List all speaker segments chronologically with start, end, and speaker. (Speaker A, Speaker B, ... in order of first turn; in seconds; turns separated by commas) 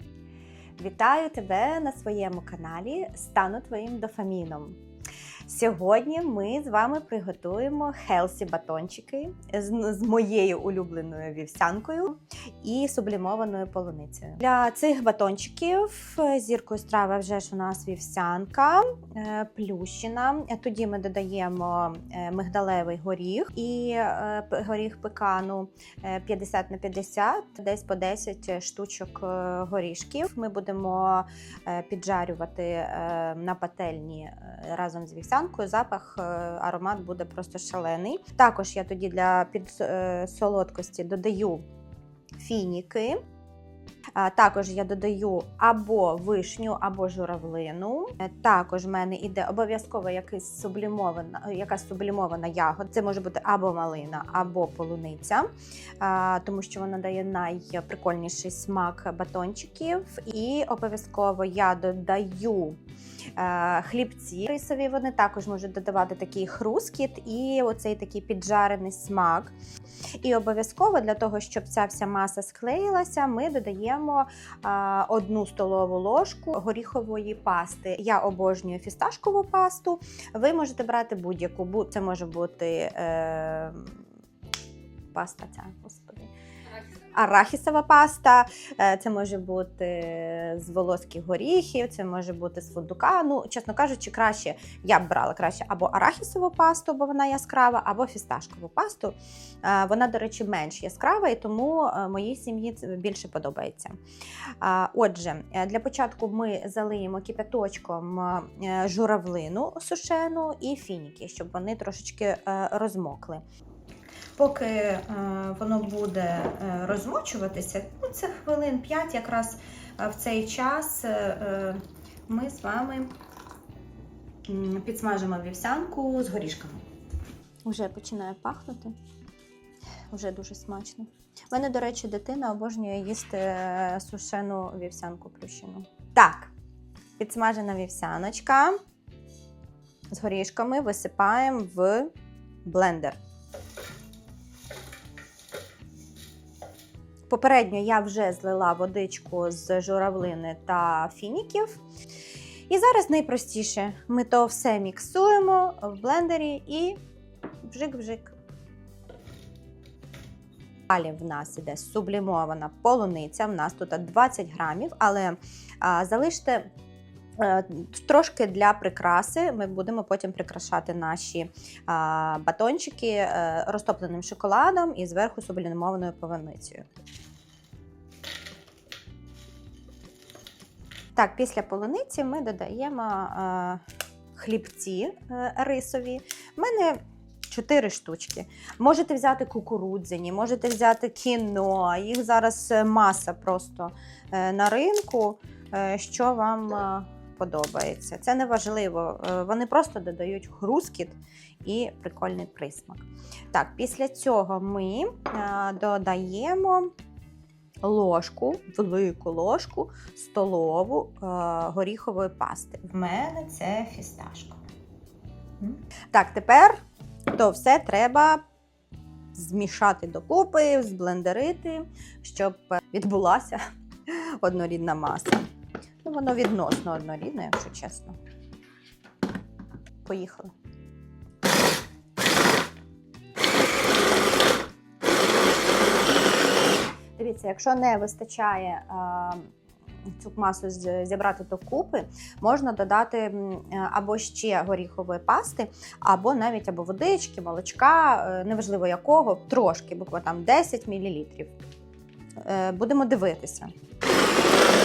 Speaker A: 0.8-4.8, Speaker A: 5.5-41.7, Speaker A: 42.4-43.2, Speaker A: 44.1-62.8, Speaker A: 63.4-69.6, Speaker A: 70.2-84.0, Speaker A: 85.1-86.3, Speaker A: 87.1-104.0, Speaker A: 104.6-113.4, Speaker A: 114.4-123.1, Speaker A: 124.5-126.8, Speaker A: 127.6-129.0, Speaker A: 130.1-136.5, Speaker A: 137.2-138.8, Speaker A: 140.1-142.1, Speaker A: 142.6-143.2, Speaker A: 147.3-151.8, Speaker A: 152.7-157.0, Speaker A: 157.6-158.3, Speaker A: 160.9-166.7, Speaker A: 167.4-176.8, Speaker A: 181.2-183.8, Speaker A: 184.3-206.9, Speaker A: 207.8-214.6, Speaker A: 215.6-216.8, Speaker A: 217.3-218.4, Speaker A: 219.3-225.5, Speaker A: 226.0-228.2, Speaker A: 230.0-230.5, Speaker A: 237.2-239.5, Speaker A: 240.1-251.6, Speaker A: 252.4-253.7